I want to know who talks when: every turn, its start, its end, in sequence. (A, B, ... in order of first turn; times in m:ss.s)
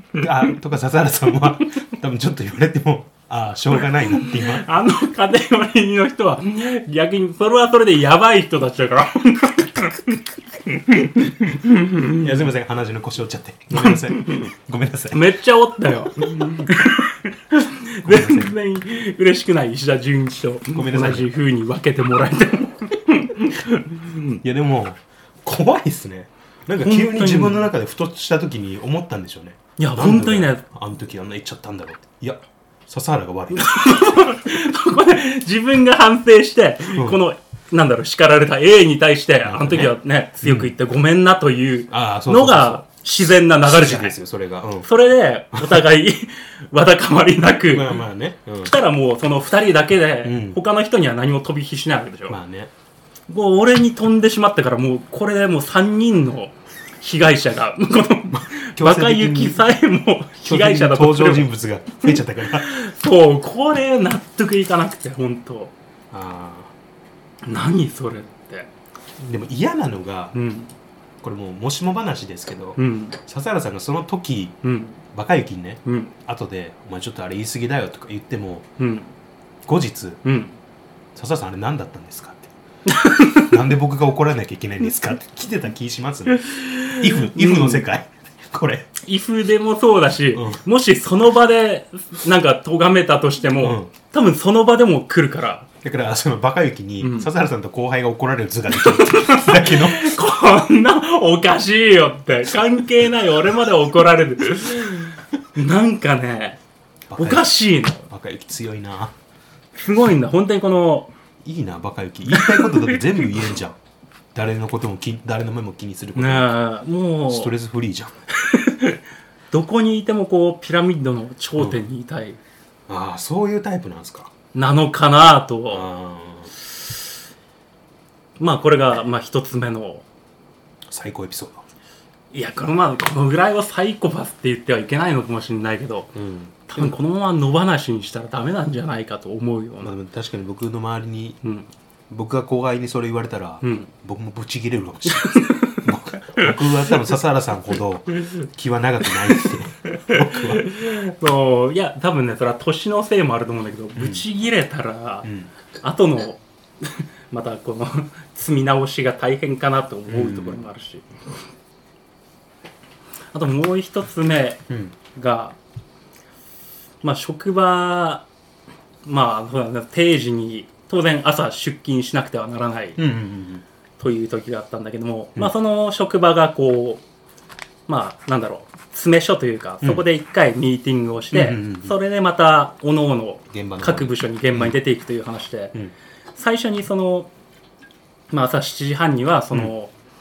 0:00.2-0:04.7 A
0:04.1-0:12.4 B
0:12.1-0:15.3 A
0:13.7-0:14.5 B
0:15.1-0:24.4 B
0:18.0-0:18.5 A
0:20.7-0:21.3 A
0:24.4-0:34.3 A
0:26.8-0:27.7 B
0:29.8-0:30.6 B
0:33.5-0:44.2 B
0:36.9-0:37.2 A
0:39.4-0:40.7 A
0:41.9-0:44.9 A
0:44.8-0:48.0 B
0:45.5-0:45.8 A
0:47.7-0:48.8 A
0:48.6-0:52.4 B
0:50.2-0:50.6 A
0:52.3-0:52.7 A
0:53.3-1:05.7 B
0:58.3-0:59.6 A
1:00.4-1:02.7 A
1:06.1-1:06.7 A
1:07.4-1:08.7 B
1:09.2-1:10.4 A
1:10.3-1:10.7 B
1:11.2-1:14.6 A
1:12.8-1:13.2 B
1:14.6-1:15.0 B
1:15.1-1:18.7 A
1:15.8-1:16.1 B
1:18.8-1:19.1 B
1:19.6-1:20.2 A
1:20.2-1:20.6 B
1:21.2-1:22.5 A
1:22.9-1:23.5 B
1:23.4-1:28.9 A
1:26.4-1:27.8 B
1:29.0-1:35.7 B
1:30.3-1:30.6 A
1:33.6-1:33.9 A
1:35.8-1:40.1 A
1:37.0-1:37.3 B
1:38.8-1:46.6 B
1:47.1-1:49.2 A
1:47.2-1:48.1 B
1:49.8-1:51.1 B
1:51.4-1:53.8 A
1:52.3-1:53.3 B
1:54.3-1:56.6 A
1:56.2-1:57.5 B
1:57.3-1:58.2 A
1:58.4-2:02.4 B
2:02.9-2:04.3 A
2:04.5-2:05.9 B
2:05.7-2:06.5 A
2:08.4-2:10.0 B
2:10.9-2:11.6 A
2:12.3-2:16.1 B
2:16.1-2:16.9 A
2:16.7-2:20.0 B
2:19.8-2:21.4 A
2:21.4-2:21.7 B
2:22.1-2:30.7 A
2:23.6-2:23.9 B
2:25.1-2:26.9 B
2:29.9-2:35.3 B
2:34.0-2:34.2 A
2:35.2-2:35.5 A
2:35.8-2:41.1 B
2:40.1-2:40.6 A
2:43.3-2:44.6 B
2:44.7-2:44.9 A
2:45.1-2:45.6 B
2:47.0-2:48.2 B
2:49.0-2:53.0 B
2:53.0-2:53.6 A
2:54.0-2:57.0 B
2:57.9-3:05.8 B
3:01.3-3:02.0 A
3:03.5-3:04.8 A
3:06.4-3:07.3 B
3:08.3-3:09.9 B